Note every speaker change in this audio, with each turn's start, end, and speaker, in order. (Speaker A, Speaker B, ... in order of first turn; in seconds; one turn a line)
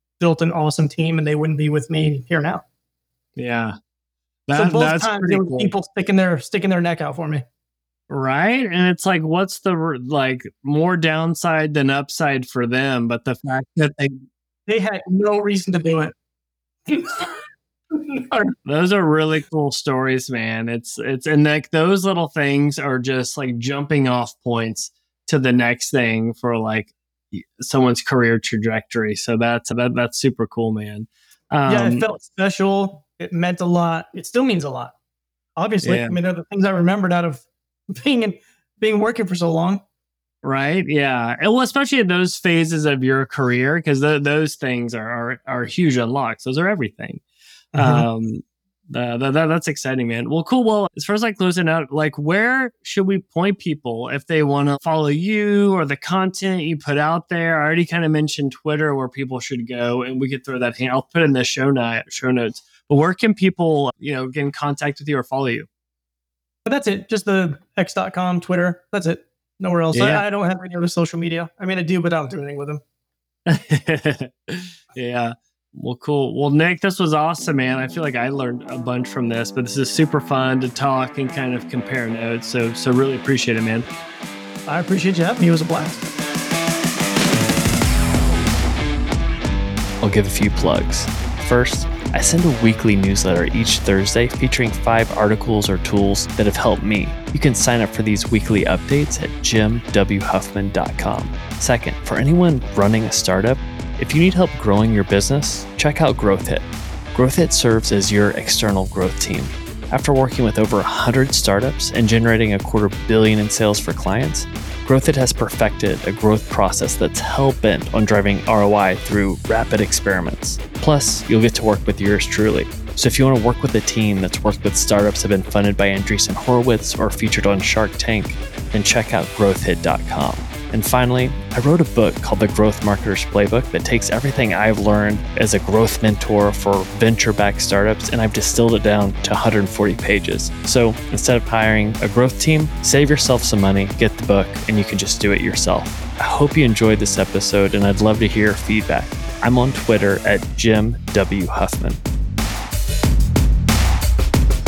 Speaker A: 0.2-2.6
Speaker B: 3.4-3.8
Speaker B: 4.5-5.7
Speaker A: 4.5-7.4
Speaker B: 8.1-14.2
Speaker A: 14.7-16.1
Speaker A: 16.9-17.4
Speaker A: 17.9-18.5
Speaker B: 18.6-32.0
Speaker A: 31.6-34.9
Speaker A: 35.5-39.8
Speaker B: 35.8-36.1
Speaker B: 40.4-47.2
Speaker A: 47.7-48.1
Speaker B: 47.7-65.7
Speaker A: 66.6-72.8
Speaker B: 69.9-70.2
Speaker B: 73.5-83.8
Speaker A: 84.7-86.2
Speaker C: 90.0-152.0